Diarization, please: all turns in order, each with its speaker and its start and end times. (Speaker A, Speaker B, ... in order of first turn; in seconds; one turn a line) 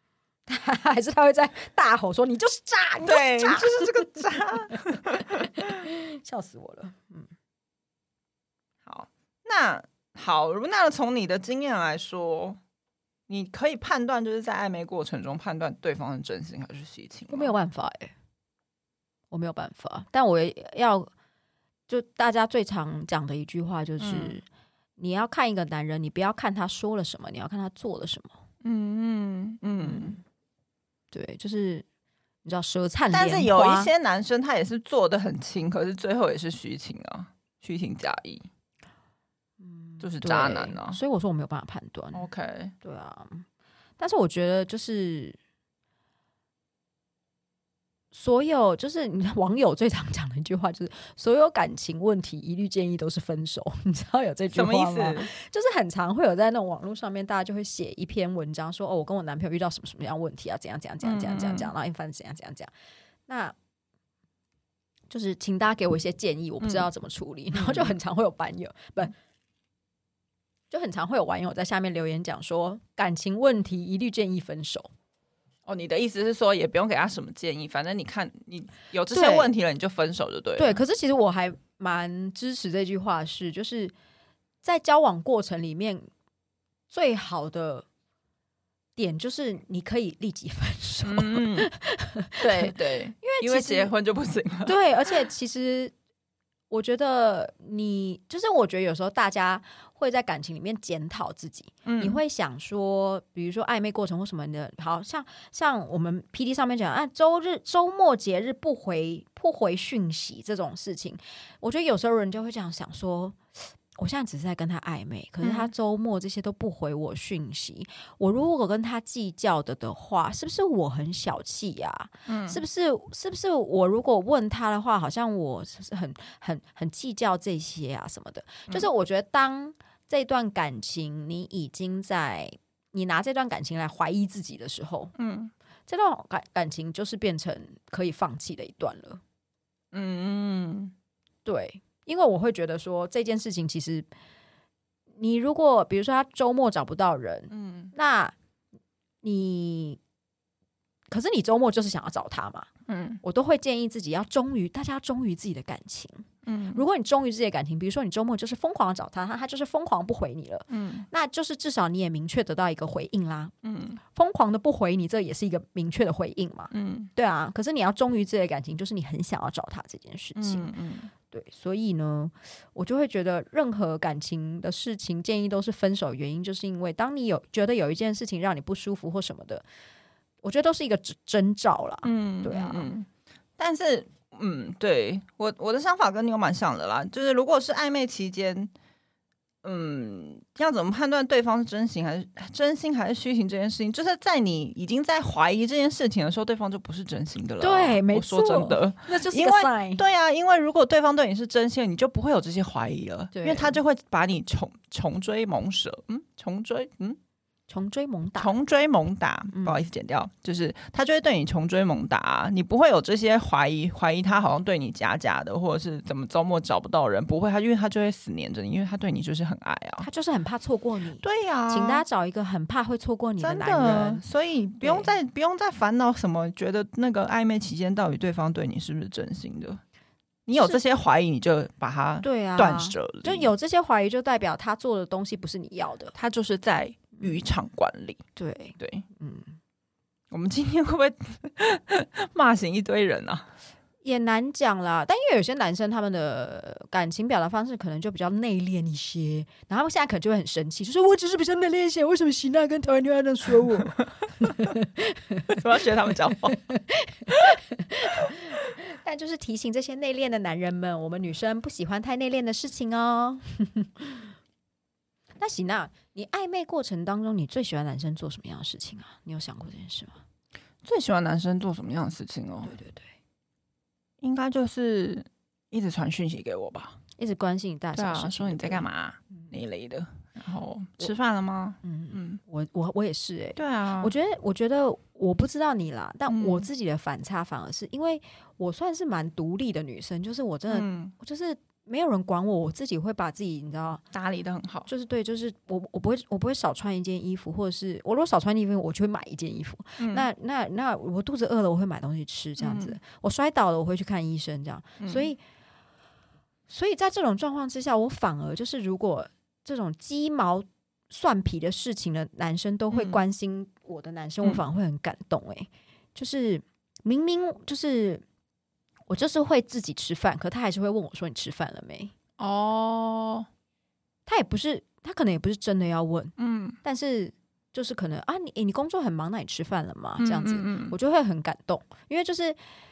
Speaker A: 0.5-7.3
Speaker B: 3.0-5.7
Speaker B: 8.8-12.6
Speaker B: 13.3-17.5
Speaker A: 17.3-18.1
Speaker A: 19.3-21.1
Speaker A: 21.9-24.4
Speaker B: 24.0-24.4
Speaker A: 25.0-28.4
Speaker B: 28.6-30.2
Speaker A: 29.8-30.2
Speaker A: 31.1-31.8
Speaker A: 32.4-33.9
Speaker B: 33.1-38.5
Speaker A: 39.6-42.2
Speaker B: 40.0-41.0
Speaker B: 42.1-42.7
Speaker A: 42.8-43.4
Speaker A: 44.0-45.4
Speaker A: 48.1-62.7
Speaker B: 54.5-55.3
Speaker B: 61.0-61.7
Speaker A: 63.3-63.5
Speaker A: 65.1-69.1
Speaker B: 66.6-66.9
Speaker B: 67.5-67.9
Speaker A: 70.7-74.9
Speaker B: 75.7-80.8
Speaker A: 79.1-79.5
Speaker A: 80.6-83.9
Speaker A: 84.6-86.0
Speaker A: 86.9-87.8
Speaker A: 89.0-93.9
Speaker B: 91.0-91.7
Speaker B: 92.4-95.1
Speaker A: 94.6-95.9
Speaker A: 96.7-135.1
Speaker B: 101.8-102.2
Speaker B: 115.4-115.7
Speaker B: 122.3-122.6
Speaker B: 135.2-135.5
Speaker A: 135.9-139.2
Speaker B: 139.9-140.9
Speaker A: 141.4-144.1
Speaker A: 145.2-148.3
Speaker B: 147.5-147.9
Speaker A: 149.2-150.0
Speaker A: 151.1-152.7
Speaker B: 152.9-153.2
Speaker A: 153.2-163.5
Speaker B: 156.4-156.8
Speaker B: 160.7-161.1
Speaker B: 163.6-164.0
Speaker A: 164.1-170.7
Speaker B: 166.7-167.1
Speaker B: 170.3-171.1
Speaker A: 171.3-179.6
Speaker A: 180.4-182.9
Speaker B: 182.0-183.1
Speaker B: 183.6-188.7
Speaker B: 189.6-207.2
Speaker A: 197.6-200.0
Speaker A: 203.3-203.8
Speaker A: 207.7-208.5
Speaker B: 208.4-220.1
Speaker A: 209.5-209.8
Speaker A: 220.0-224.2
Speaker B: 221.2-222.0
Speaker B: 223.4-229.8
Speaker A: 224.8-225.1
Speaker B: 230.5-233.5
Speaker A: 230.5-230.8
Speaker A: 232.2-236.1
Speaker B: 236.1-238.2
Speaker A: 237.1-237.4
Speaker A: 238.3-239.5
Speaker B: 238.8-239.1
Speaker B: 240.3-243.5
Speaker A: 244.0-255.6
Speaker B: 255.5-256.6
Speaker A: 256.1-264.3
Speaker A: 265.4-270.2
Speaker B: 270.8-272.7
Speaker A: 272.6-273.1
Speaker B: 274.2-277.0
Speaker A: 277.2-278.9
Speaker B: 277.9-282.4
Speaker A: 281.8-294.0
Speaker B: 283.6-284.1
Speaker B: 286.3-286.7
Speaker B: 290.7-291.1
Speaker B: 294.1-294.9
Speaker A: 294.9-305.4
Speaker B: 300.0-300.3
Speaker B: 302.6-303.0
Speaker B: 305.0-305.3
Speaker A: 306.7-318.2
Speaker B: 312.9-313.2
Speaker A: 319.1-322.1
Speaker B: 322.4-323.5
Speaker A: 324.2-332.6
Speaker B: 326.4-326.8
Speaker B: 330.2-330.9